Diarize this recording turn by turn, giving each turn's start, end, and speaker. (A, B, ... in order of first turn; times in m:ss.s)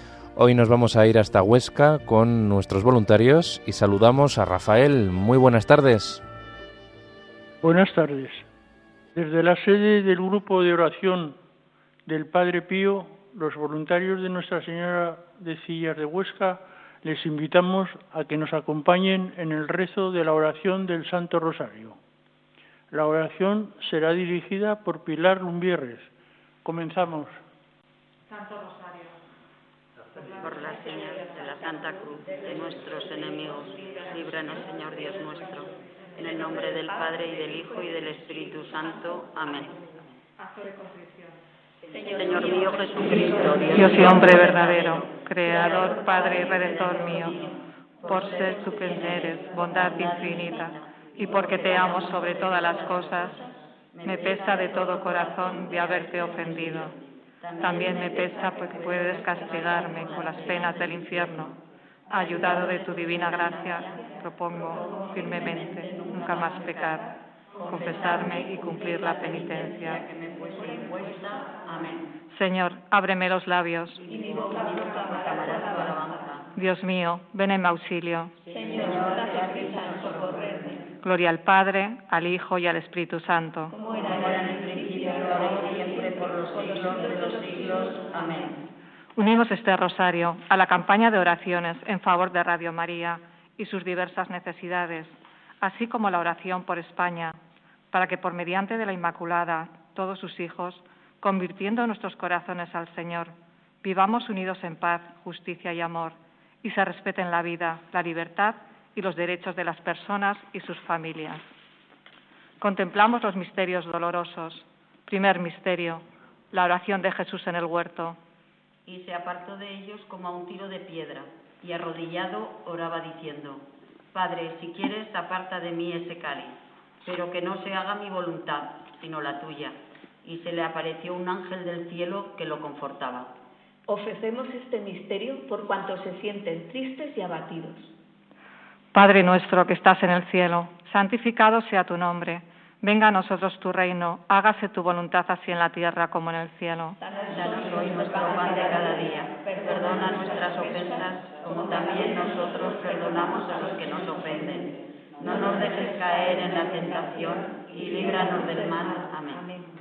0:00.4-0:06.2 A
0:07.6-0:08.4 B
0:09.1-0:11.4 B
0:12.0-0:22.0 B
0:22.9-0:26.1 B
0:26.6-0:27.4 B
0:28.3-0:29.2 C
0:30.2-0:40.1 D
0:40.4-0:41.4 C
0:42.0-1:01.5 D
0:43.7-0:47.4 C
0:48.0-0:53.5 C
0:54.0-0:57.0 C
0:57.6-1:01.5 C
1:02.1-1:07.1 C
1:02.1-1:04.0 D
1:04.7-1:07.0 D
1:07.6-1:12.1 D
1:07.7-1:10.0 C
1:12.3-1:14.0 C
1:14.0-1:16.5 D
1:16.5-1:18.4 C
1:18.5-1:20.8 E
1:18.5-1:20.2 D
1:21.0-1:23.7 C
1:23.9-1:28.6 D
1:29.2-1:37.4 C
1:37.9-1:51.5 C
1:52.6-1:58.2 C
1:58.8-2:13.3 D
2:13.9-2:17.9 E
2:18.9-2:27.0 C
2:27.0-2:27.3 E
2:27.3-2:39.4 D